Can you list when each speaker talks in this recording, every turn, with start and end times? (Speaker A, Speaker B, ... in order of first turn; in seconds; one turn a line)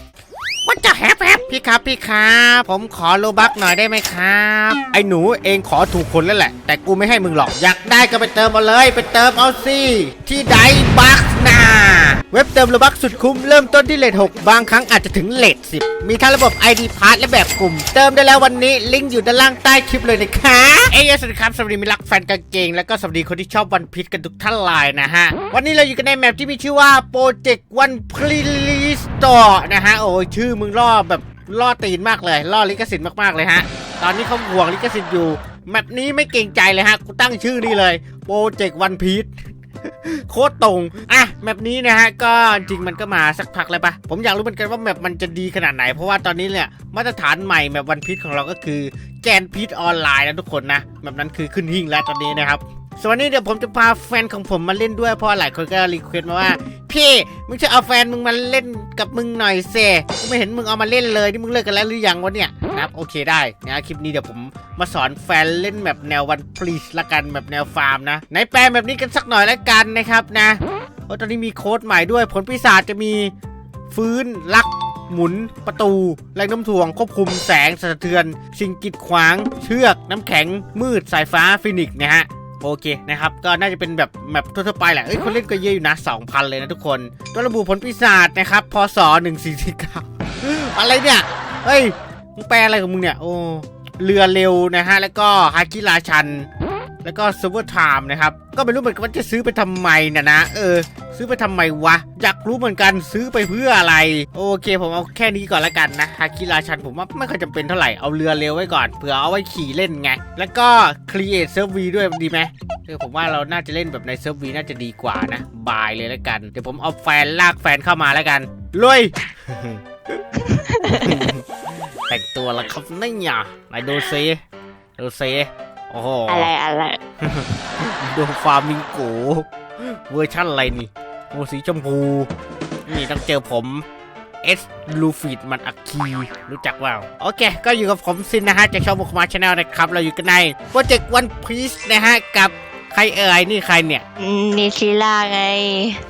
Speaker A: 0.6-39.3
Speaker A: 39.8-73.3
Speaker A: 73.9-96.5
Speaker A: 97.0-119.8
Speaker B: 120.5-121.3
Speaker A: 120.9-121.5
Speaker A: 122.1-124.4
Speaker A: 125.0-126.5
Speaker B: 126.3-127.0
Speaker A: 127.2-132.3
Speaker A: 132.9-133.8
Speaker A: 134.4-144.0
Speaker B: 144.2-146.0